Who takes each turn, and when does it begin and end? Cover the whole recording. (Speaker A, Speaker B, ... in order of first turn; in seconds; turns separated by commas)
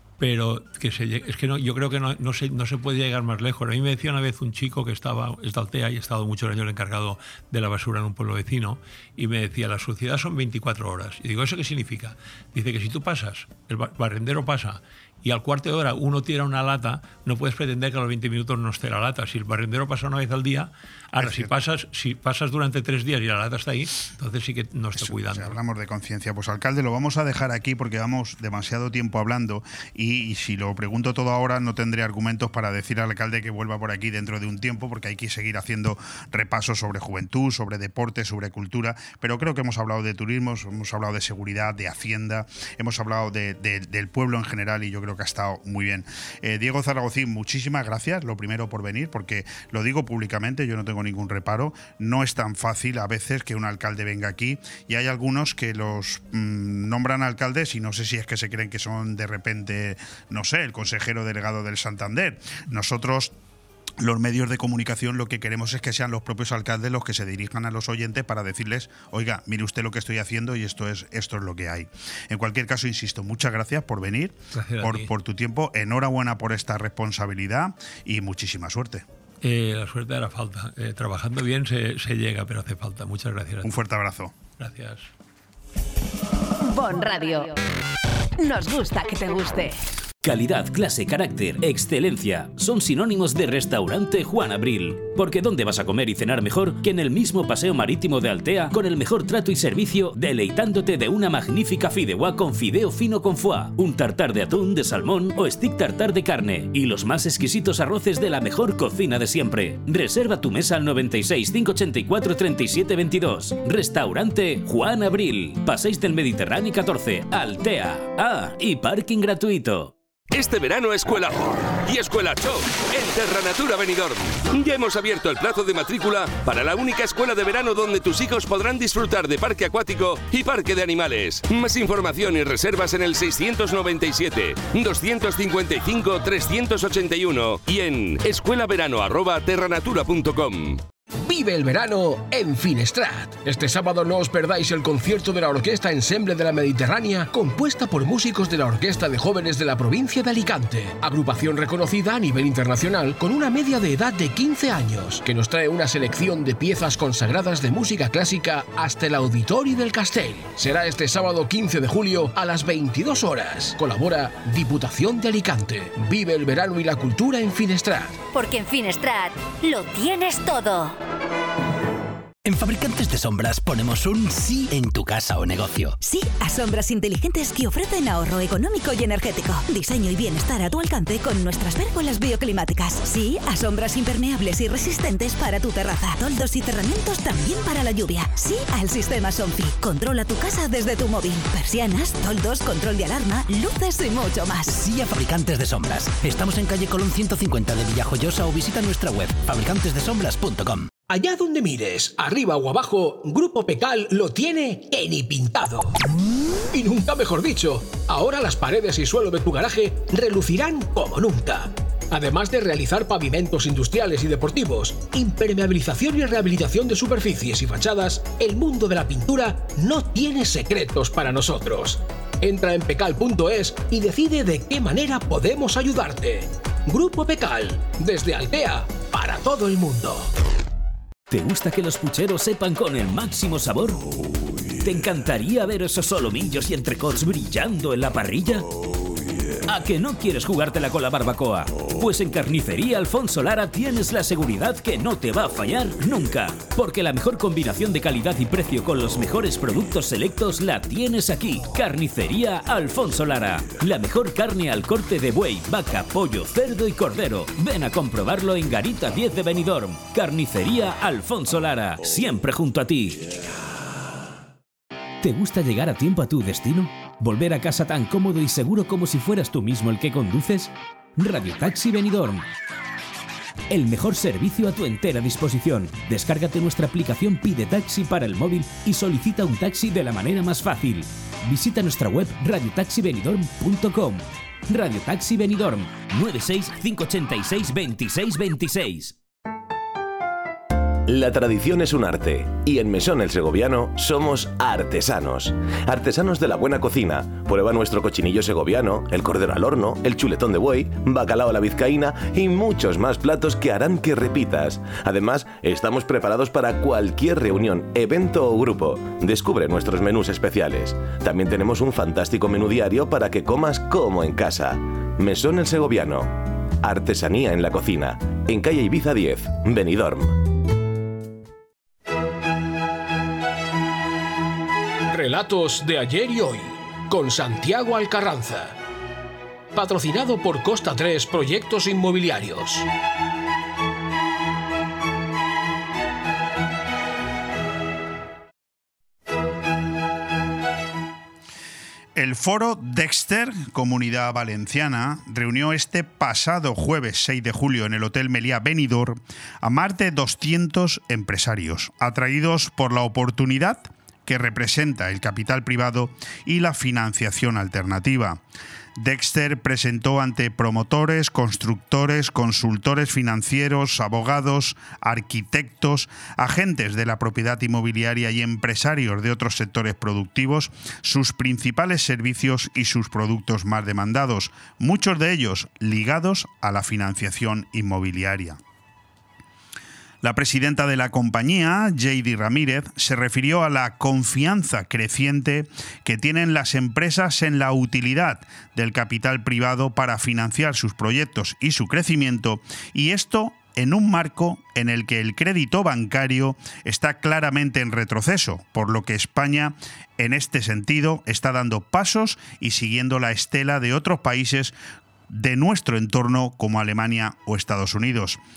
Speaker A: 0.2-25.6, Speaker B: 21.2-21.5, Speaker B: 25.0-63.3, Speaker B: 64.0-79.0, Speaker A: 74.5-75.1, Speaker A: 79.4-83.7, Speaker B: 83.6-84.3, Speaker A: 84.6-85.1, Speaker C: 86.7-87.5, Speaker C: 88.4-89.7, Speaker D: 90.2-119.9, Speaker E: 120.3-140.8, Speaker F: 141.2-168.2, Speaker G: 168.3-171.0, Speaker H: 172.4-176.0, Speaker C: 176.0-194.7, Speaker H: 194.7-200.9, Speaker F: 201.1-205.9, Speaker F: 206.7-230.3, Speaker D: 231.3-234.1, Speaker D: 234.8-238.7, Speaker D: 239.7-263.3, Speaker D: 265.2-272.4, Speaker D: 273.7-289.1, Speaker I: 291.1-320.4, Speaker F: 325.1-328.8, Speaker F: 329.7-332.9, Speaker B: 342.1-358.4, Speaker B: 359.0-378.6, Speaker B: 380.2-404.8, Speaker B: 405.3-408.4